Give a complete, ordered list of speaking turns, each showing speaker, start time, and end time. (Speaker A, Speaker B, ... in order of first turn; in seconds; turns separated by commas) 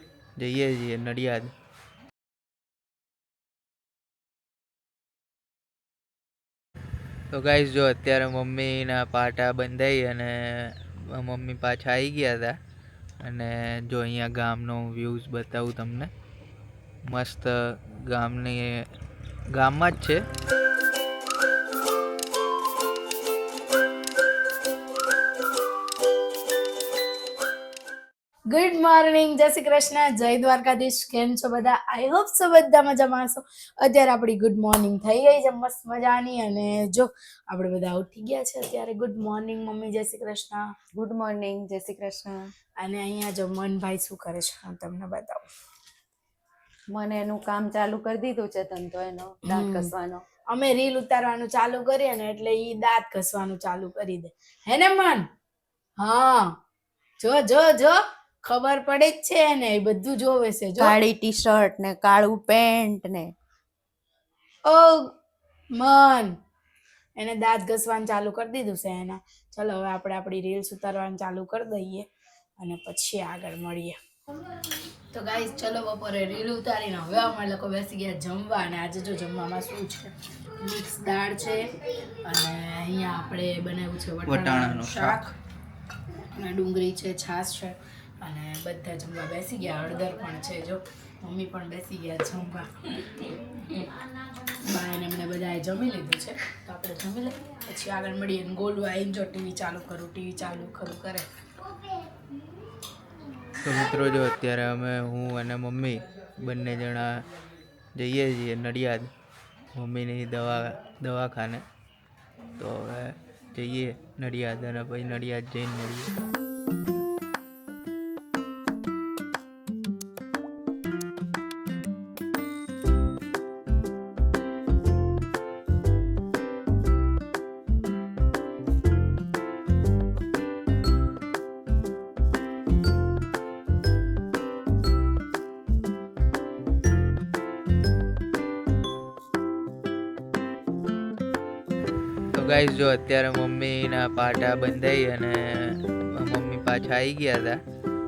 Speaker A: 0.4-1.5, Speaker A: 7.3-12.6, Speaker A: 13.2-16.1, Speaker A: 17.1-18.7, Speaker A: 19.5-20.2, Speaker B: 28.5-40.7, Speaker C: 41.0-42.5, Speaker B: 42.8-45.5, Speaker C: 46.9-50.2, Speaker B: 49.4-49.9, Speaker B: 50.5-55.2, Speaker B: 56.0-56.5, Speaker B: 57.2-61.0, Speaker C: 60.8-63.3, Speaker B: 64.7-65.1, Speaker B: 65.8-66.3, Speaker B: 67.2-72.1, Speaker B: 72.6-74.0, Speaker B: 75.1-81.7, Speaker B: 82.2-85.3, Speaker A: 84.2-85.2, Speaker B: 86.4-93.9, Speaker B: 94.6-101.3, Speaker A: 103.6-107.1, Speaker A: 108.0-109.1, Speaker A: 109.7-111.7, Speaker A: 112.6-116.1, Speaker A: 142.3-147.6